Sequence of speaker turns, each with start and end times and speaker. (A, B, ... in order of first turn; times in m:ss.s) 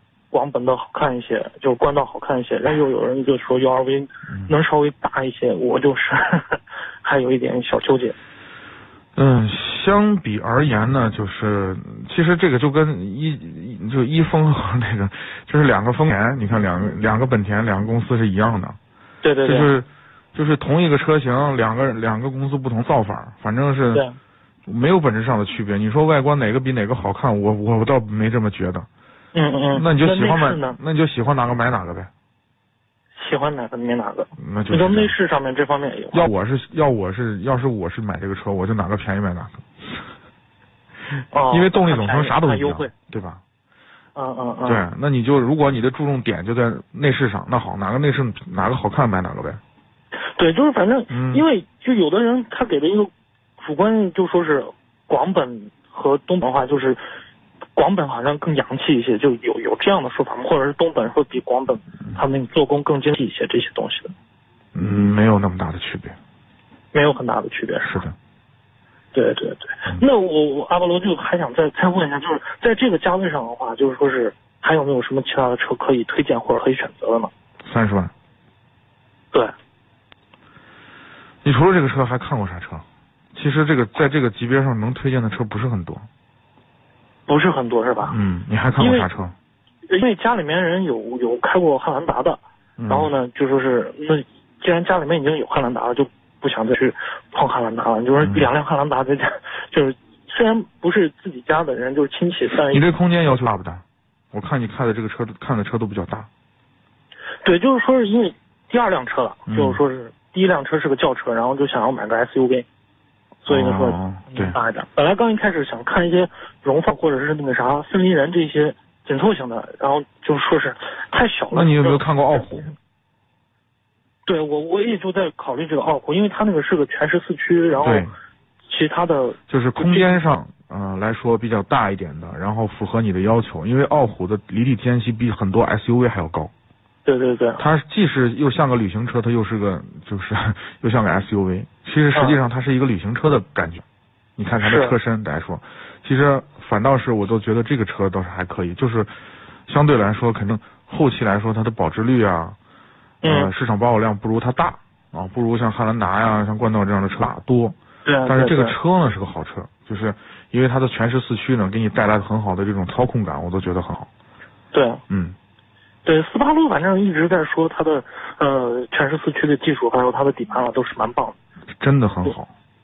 0:00.3-0:08.2 A
0:04.3-0:04.5 B
0:09.2-0:18.8 B
0:19.2-0:19.7 A
0:19.4-0:24.0 B
0:24.7-0:28.9 B
0:29.3-0:30.8 A
0:29.7-0:32.1 B
0:33.2-0:36.3 A
0:34.4-0:35.2 B
0:36.1-0:40.0 B
0:41.3-0:42.9 A
0:41.5-0:43.4 B
0:44.2-0:44.8 A
0:44.6-0:49.6 B
0:50.4-0:57.0 A
0:51.1-0:51.4 B
0:57.8-1:04.1 A
1:04.7-1:06.2 B
1:06.9-1:08.0 A
1:07.8-1:08.2 B
1:09.1-1:17.3 A
1:17.6-1:18.1 B
1:21.4-1:26.1 B
1:27.3-1:28.2 A
1:28.1-1:29.3 B
1:28.8-1:29.1 A
1:29.9-1:42.9 A
1:32.8-1:33.1 B
1:38.2-1:38.5 B
1:42.7-1:46.3 B
1:47.4-1:52.7 A
1:49.5-1:49.8 B
1:53.4-2:02.7 A
1:53.5-1:54.6 B
2:01.5-2:02.7 B
2:04.3-2:08.1 A
2:07.8-2:08.1 B
2:08.7-2:10.2 A
2:09.5-2:16.5 B
2:17.0-2:17.6 A
2:17.6-2:23.8 B
2:22.1-2:22.4 A
2:24.4-2:29.1 B
2:24.6-2:25.0 A
2:29.7-2:32.6 B
2:33.2-2:33.5 A
2:33.2-2:37.8 B
2:38.0-2:38.8 A
2:38.3-2:44.1 B
2:44.7-2:45.0 A
2:45.1-2:45.4 B
2:46.0-2:51.4 A
2:51.8-2:52.5 B